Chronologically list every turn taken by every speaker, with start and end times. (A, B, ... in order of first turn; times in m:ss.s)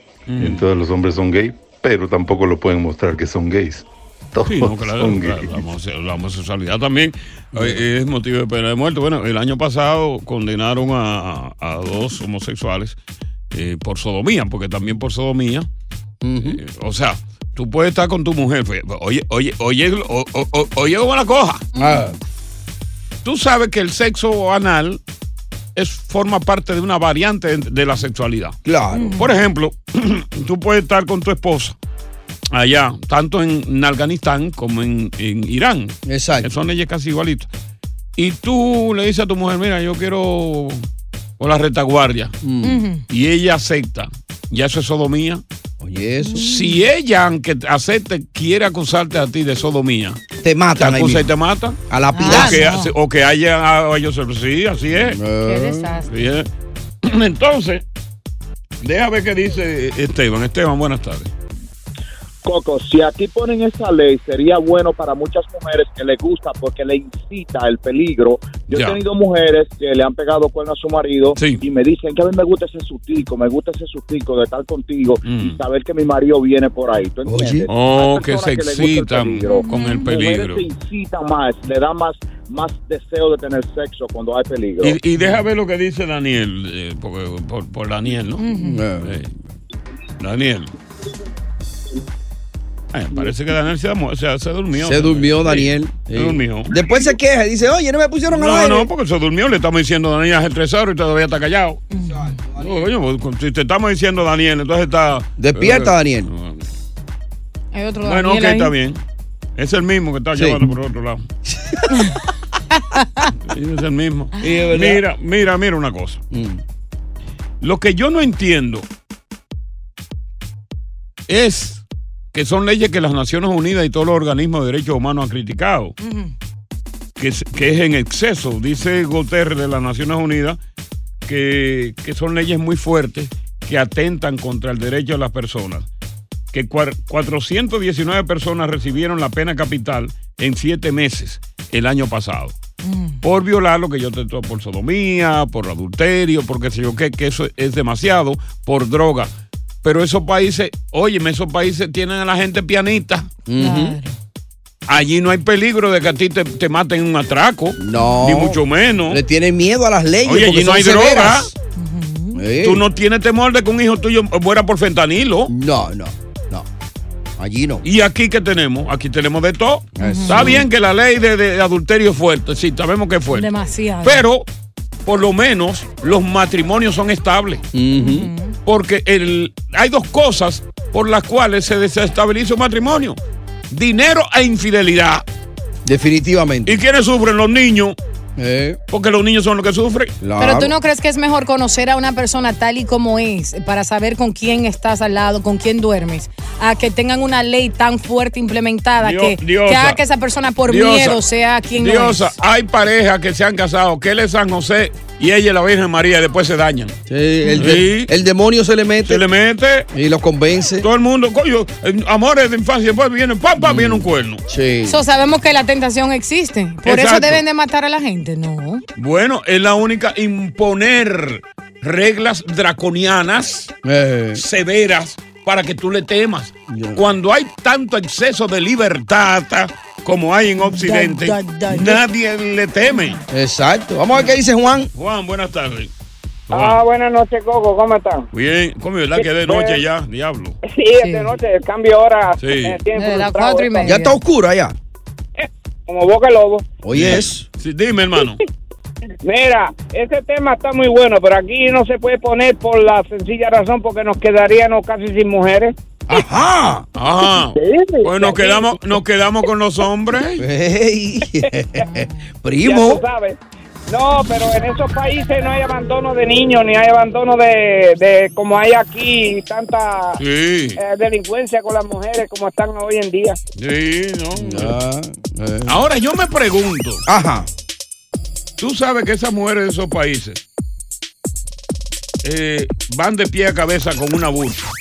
0:00.3-0:00.7 A
0:00.4-0:05.6 B
0:04.4-0:13.0 A
0:07.5-0:07.8 C
0:13.5-0:15.7 A
0:16.2-0:16.6 C
0:16.4-0:21.6 A
0:21.8-0:22.2 C
0:21.8-0:22.1 D
0:23.2-0:25.0 A
0:25.8-0:28.6 A
0:28.6-0:29.2 C
0:28.9-0:29.3 D
0:29.1-0:31.8 A
0:32.5-0:37.5 A
0:36.0-0:36.5 C
0:38.2-0:40.8 A
0:41.4-0:42.3 A
0:42.4-0:42.9 C
0:42.6-0:43.0 D
0:43.1-0:45.4 A
0:45.8-0:46.5 C
0:46.2-0:46.8 D
0:46.4-0:50.2 A
0:50.4-0:51.3 C
0:50.8-0:55.2 A
0:51.9-0:52.7 C
0:52.1-0:52.9 D
0:55.0-0:55.9 C
0:55.4-0:56.1 D
0:56.1-0:56.5 A
0:57.0-0:57.8 A
0:58.8-1:01.3 A
1:02.4-1:25.0 E
1:08.7-1:09.0 A
1:11.4-1:11.6 A
1:15.2-1:15.6 A
1:17.2-1:17.7 C
1:17.7-1:20.6 A
1:19.5-1:20.0 D
1:24.8-1:28.4 A
1:28.4-1:28.8 D
1:28.5-1:29.2 C
1:29.0-1:29.3 A
1:30.2-1:30.7 A
1:32.9-1:36.7 A
1:34.8-1:38.9 C
1:38.3-1:41.8 A
1:41.9-1:42.4 D
1:42.0-1:42.9 C
1:42.6-1:46.7 A
1:45.4-1:46.3 C
1:47.7-1:48.7 D
1:48.0-1:49.0 A
1:49.6-1:51.2 A
1:50.3-1:50.7 C
1:51.4-1:52.2 C
1:51.9-1:53.3 D
1:53.4-1:56.2 A
1:54.4-1:55.0 C
1:56.3-1:56.6 C
1:57.6-1:58.8 A
2:01.3-2:05.9 A
2:06.0-2:06.3 D
2:07.2-2:10.6 A
2:11.2-2:15.9 A
2:16.5-2:22.6 A
2:22.8-2:23.2 D
2:23.2-2:29.3 A
2:29.8-2:33.3 A
2:33.4-2:34.0 C
2:33.6-2:34.2 D
2:34.9-2:39.2 A
2:37.8-2:41.5 C
2:37.9-2:38.3 D
2:40.2-2:41.5 A
2:41.8-2:42.4 D
2:42.3-2:42.8 C
2:42.6-2:45.5 A
2:45.5-2:46.6 C
2:47.4-2:47.8 C
2:47.8-2:53.5 A
2:50.0-2:50.7 C
2:50.0-2:50.5 D
2:53.3-2:54.2 D
2:54.0-2:54.5 A
2:55.0-2:57.6 A
2:57.7-2:58.3 C
2:58.0-2:58.6 D
2:58.6-3:03.2 A
3:03.7-3:05.2 A
3:05.8-3:06.8 C
3:06.6-3:08.0 A
3:08.4-3:08.8 C
3:08.9-3:10.2 A
3:10.2-3:10.7 C
3:10.4-3:22.3 D
3:19.0-3:20.0 A
3:20.7-3:21.2 A
3:21.8-3:27.0 A
3:27.1-3:29.2 C
3:27.4-3:27.7 D
3:27.6-3:28.1 A
3:29.0-3:29.9 A
3:29.9-3:30.9 C
3:30.8-3:34.4 A
3:33.6-3:35.0 C
3:34.8-3:38.8 D
3:36.8-3:37.4 A
3:39.0-3:43.7 A
3:43.8-3:44.4 C
3:44.3-3:53.2 A
3:46.7-3:47.0 C
3:50.6-3:52.0 D
3:53.3-3:54.9 C
3:54.9-3:55.9 A
3:56.5-3:56.8 A
3:56.5-3:58.2 F
3:58.3-4:00.6 A
3:59.2-3:59.8 F
4:00.6-4:03.9 F
4:01.0-4:01.3 D
4:02.4-4:02.8 A
4:02.9-4:04.2 D
4:03.8-4:04.8 C
4:05.4-4:06.7 F
4:06.8-4:07.4 C
4:06.9-4:08.4 A
4:09.2-4:15.7 F
4:16.1-4:16.9 C
4:16.9-4:20.4 A
4:17.5-4:18.7 F
4:20.4-4:23.0 C
4:21.8-4:22.2 D
4:22.6-4:30.2 F
4:30.2-4:30.8 A
4:30.8-4:33.4 F
4:33.6-4:34.8 A
4:34.3-4:35.8 C
4:35.6-4:37.0 A
4:37.1-4:37.5 C
4:38.6-4:40.4 A
4:42.2-4:44.7 A